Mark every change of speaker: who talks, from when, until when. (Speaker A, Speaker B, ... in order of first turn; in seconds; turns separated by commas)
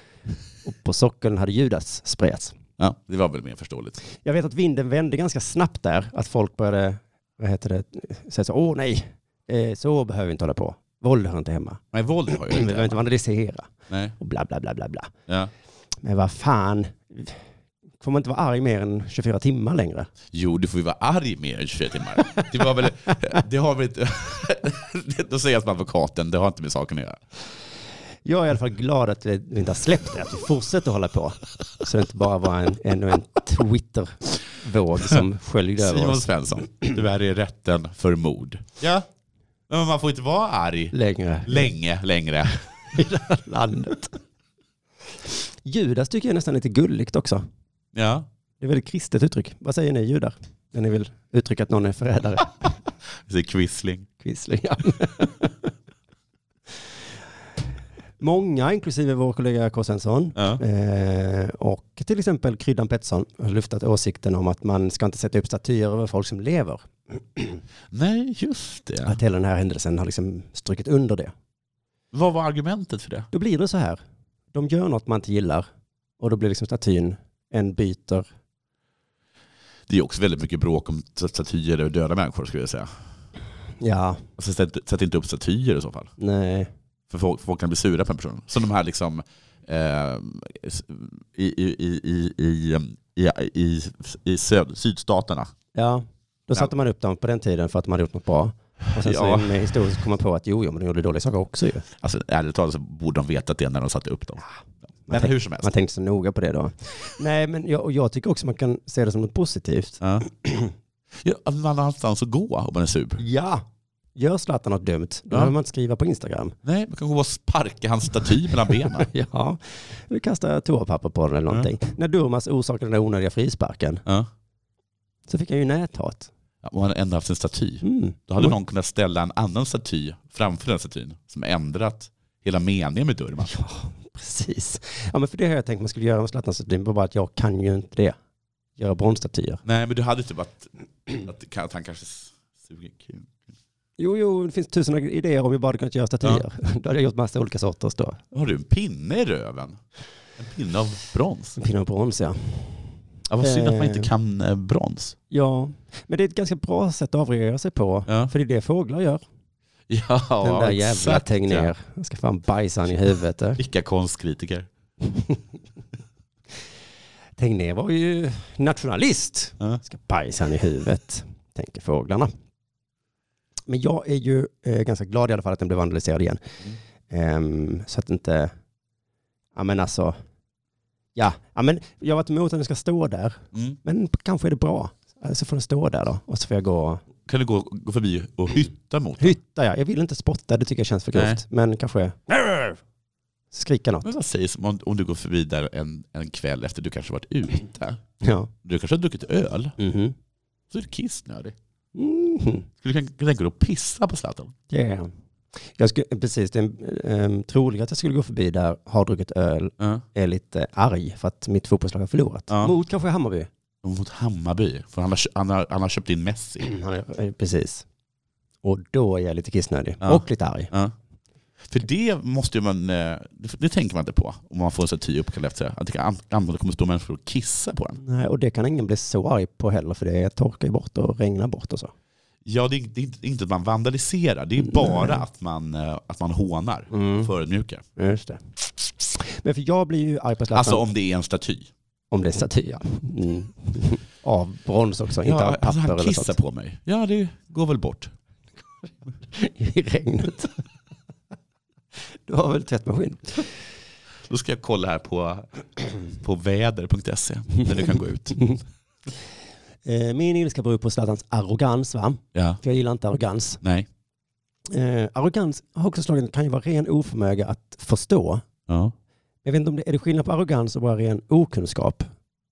Speaker A: 0.6-2.5, Speaker B: 2.8-4.0, Speaker A: 4.0-15.1, Speaker B: 11.9-13.0, Speaker B: 13.9-14.1, Speaker A: 16.0-17.4, Speaker A: 18.0-20.1, Speaker B: 20.3-27.2, Speaker A: 28.2-37.0, Speaker B: 35.8-39.0, Speaker B: 39.7-40.9, Speaker A: 40.9-41.7, Speaker B: 41.4-42.5, Speaker A: 42.9-44.2, Speaker A: 45.6-47.4, Speaker B: 47.9-48.3, Speaker A: 48.6-52.7, Speaker B: 53.2-54.1, Speaker A: 54.2-55.7, Speaker A: 58.2-67.6, Speaker B: 60.4-60.6, Speaker B: 67.9-69.2, Speaker A: 69.0-71.3, Speaker B: 72.1-73.3, Speaker A: 73.3-74.0, Speaker A: 74.5-75.7, Speaker A: 76.2-78.3, Speaker B: 79.9-82.9, Speaker A: 83.8-84.2, Speaker B: 84.4-86.1, Speaker A: 86.2-86.7, Speaker B: 87.1-95.5, Speaker A: 95.7-101.9, Speaker B: 99.0-99.5, Speaker B: 102.0-104.4, Speaker B: 105.1-105.7, Speaker A: 105.1-110.7, Speaker B: 110.0-110.3, Speaker B: 111.2-113.2, Speaker A: 113.2-113.6, Speaker A: 114.2-116.5, Speaker B: 116.6-119.1, Speaker A: 119.0-124.0, Speaker A: 125.3-126.3, Speaker B: 126.6-133.5, Speaker A: 127.8-128.5, Speaker A: 133.4-138.2, Speaker A: 138.8-139.6, Speaker B: 139.6-143.5, Speaker A: 144.0-148.2, Speaker B: 148.3-149.8, Speaker B: 150.4-151.6, Speaker A: 151.6-154.1, Speaker B: 153.3-155.2, Speaker A: 155.3-159.2, Speaker B: 159.9-161.7, Speaker A: 160.4-163.6, Speaker B: 163.6-164.7, Speaker A: 165.0-165.4, Speaker A: 167.4-172.3, Speaker A: 173.7-176.6, Speaker A: 177.1-178.5, Speaker A: 179.6-180.2, Speaker A: 181.1-187.0, Speaker B: 187.2-189.4, Speaker A: 189.2-192.8, Speaker B: 191.1-191.4, Speaker A: 193.5-194.1, Speaker B: 194.0-198.0, Speaker A: 198.2-198.5, Speaker B: 198.6-199.8, Speaker A: 199.8-200.1, Speaker B: 200.7-201.6, Speaker A: 201.9-202.7, Speaker B: 202.8-204.5, Speaker A: 204.7-205.1, Speaker A: 205.7-213.5, Speaker B: 209.8-210.0, Speaker B: 213.8-216.6, Speaker A: 216.6-217.9, Speaker A: 218.6-220.7, Speaker B: 220.0-220.9, Speaker B: 221.6-228.0, Speaker A: 228.0-231.9, Speaker B: 232.4-237.8, Speaker A: 234.7-235.1, Speaker A: 236.9-237.3, Speaker A: 238.0-240.8, Speaker B: 240.5-241.7, Speaker A: 242.1-246.4, Speaker B: 245.2-248.1, Speaker A: 249.3-250.6, Speaker A: 252.3-253.5, Speaker B: 254.3-258.4, Speaker A: 258.4-258.6, Speaker A: 259.8-263.6, Speaker B: 262.3-262.6, Speaker B: 263.6-263.9, Speaker A: 264.7-268.4, Speaker B: 268.7-268.9, Speaker A: 269.4-272.1